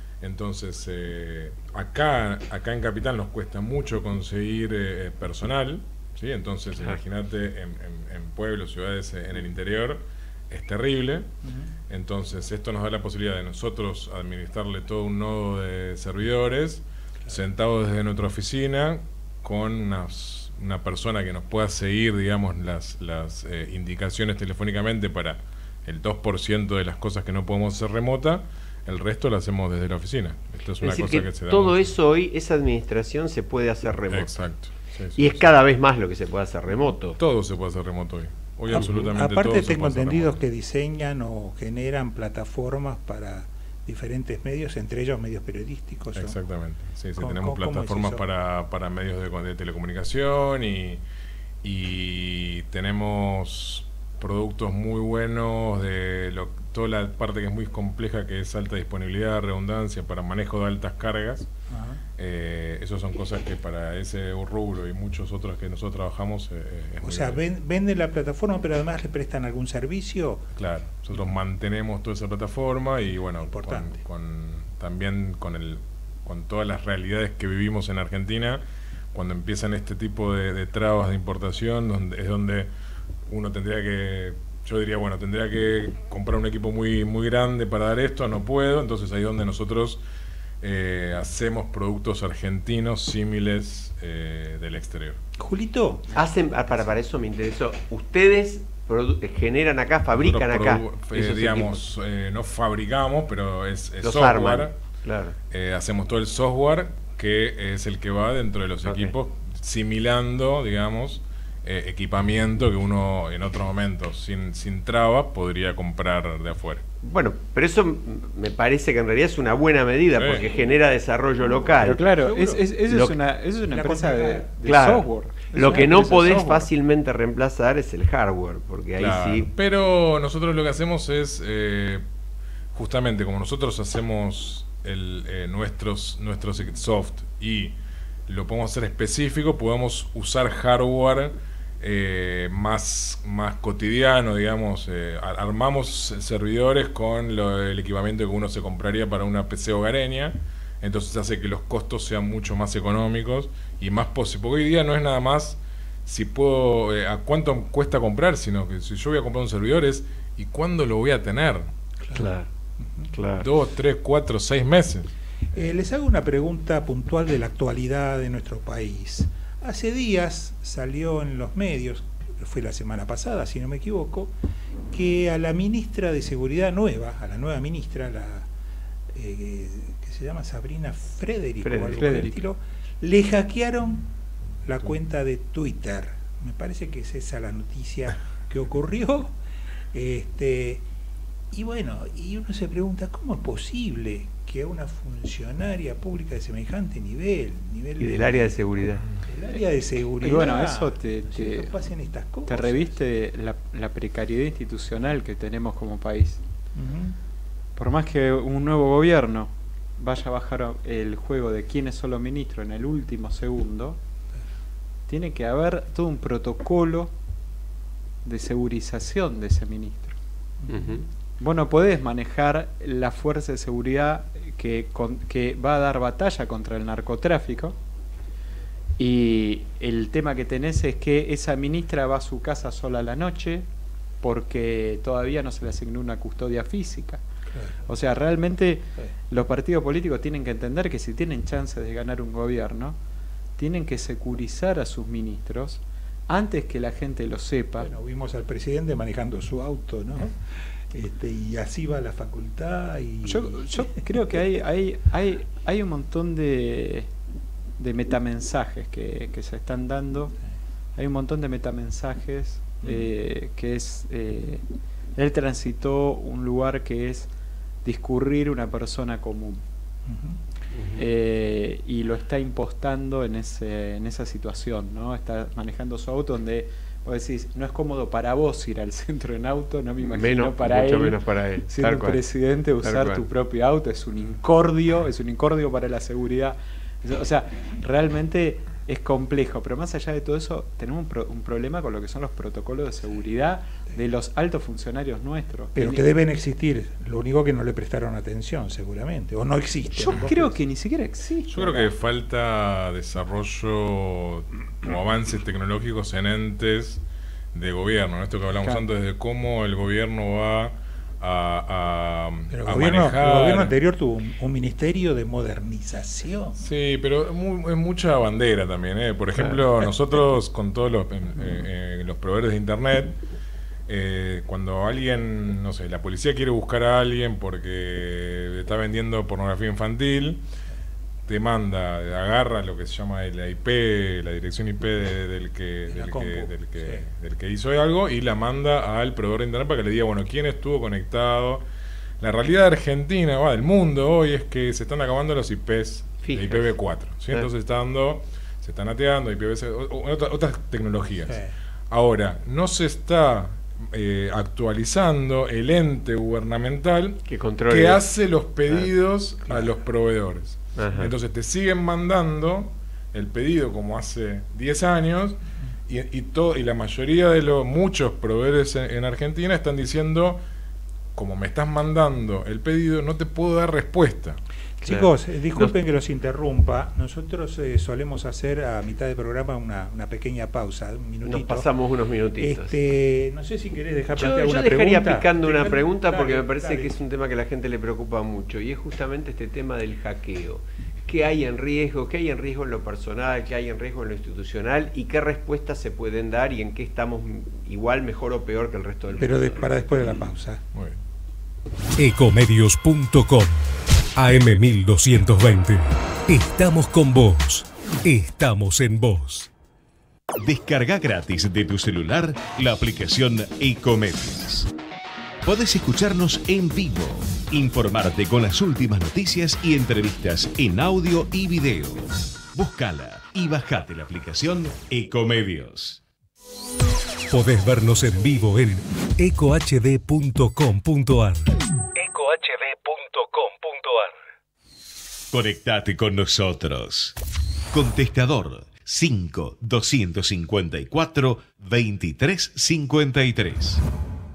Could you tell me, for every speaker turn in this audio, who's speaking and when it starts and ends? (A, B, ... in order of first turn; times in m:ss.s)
0:00.2-0:11.3 A
0:11.4-0:11.7 B
0:11.9-0:31.9 A
0:30.8-0:34.5 C
0:34.1-0:35.4 A
0:35.2-0:37.2 C
0:37.2-0:40.3 A
0:38.7-0:46.4 B
0:46.2-0:51.0 A
0:47.2-0:48.2 B
0:51.6-1:01.5 A
1:01.7-1:02.0 B
1:02.2-1:07.4 A
1:07.0-1:10.4 B
1:10.6-1:18.6 A
1:13.4-1:14.0 B
1:19.1-1:22.7 A
1:23.3-1:30.0 A
1:30.6-1:35.2 A
1:35.4-1:36.2 B
1:36.1-1:41.8 C
1:40.2-1:44.8 A
1:44.0-1:45.4 C
1:45.5-1:56.8 A
1:48.8-1:49.1 C
1:57.0-2:02.0 C
2:00.2-2:00.4 A
2:01.4-2:02.7 B
2:01.8-2:06.7 D
2:02.9-2:03.1 C
2:03.7-2:04.5 B
2:04.6-2:09.5 C
2:05.7-2:06.3 B
2:09.0-2:12.0 A
2:12.7-2:17.8 A
2:18.3-2:41.7 A
2:42.1-2:43.1 B
2:42.1-2:42.5 C
2:43.1-2:43.5 C
2:43.4-2:45.1 A
2:45.5-2:54.3 B
2:54.9-2:58.5 B
2:59.1-3:04.1 B
3:01.6-3:02.3 C
3:01.9-3:02.4 D
3:04.6-3:09.3 B
3:09.9-3:10.8 B
3:11.5-3:18.6 B
3:18.0-3:19.1 C
3:19.2-3:22.9 B
3:20.2-3:21.7 D
3:22.5-3:26.4 D
3:26.8-3:27.2 B
3:27.8-3:34.0 D
3:35.1-3:37.1 D
3:38.2-3:40.2 D
3:40.6-3:41.0 B
3:40.7-3:41.1 C
3:41.4-3:47.8 D
3:49.0-3:53.7 D
3:54.2-3:57.2 D
3:57.5-3:57.8 B
3:57.9-4:03.0 D
4:03.6-4:07.9 D
4:07.8-4:13.9 B
4:13.2-4:17.1 D
4:17.8-4:20.4 D
4:21.0-4:24.6 D
4:25.2-4:27.3 D
4:27.8-4:29.6 D
4:30.1-4:30.4 B
4:30.7-4:31.1 C
4:31.0-4:56.0 D
4:40.0-4:42.2 C
4:42.8-4:43.2 C
4:55.8-5:00.6 B
5:00.0-5:01.9 D
5:01.5-5:07.0 A
5:07.5-5:13.7 A
5:12.5-5:16.6 B
5:16.6-5:23.2 A
5:19.4-5:19.6 C
5:23.9-5:30.4 A
5:31.3-5:41.6 A
5:35.9-5:37.0 B
5:42.2-6:10.4 A
5:46.2-5:46.7 C
5:51.2-5:51.6 B
5:57.3-5:58.0 C
5:59.5-5:59.8 B
6:00.8-6:01.1 C
6:11.2-6:14.4 A
6:14.8-6:21.7 B
6:14.8-6:15.8 C
6:21.2-6:22.8 C
6:22.4-6:27.0 B
6:24.2-6:40.0 C
6:39.2-6:40.6 B
6:42.0-6:43.6 E
6:44.2-6:49.5 E
6:50.4-6:54.7 F
6:55.4-7:06.0 F
7:07.3-7:14.2 E
7:15.3-7:17.2 F
7:17.7-7:23.8 F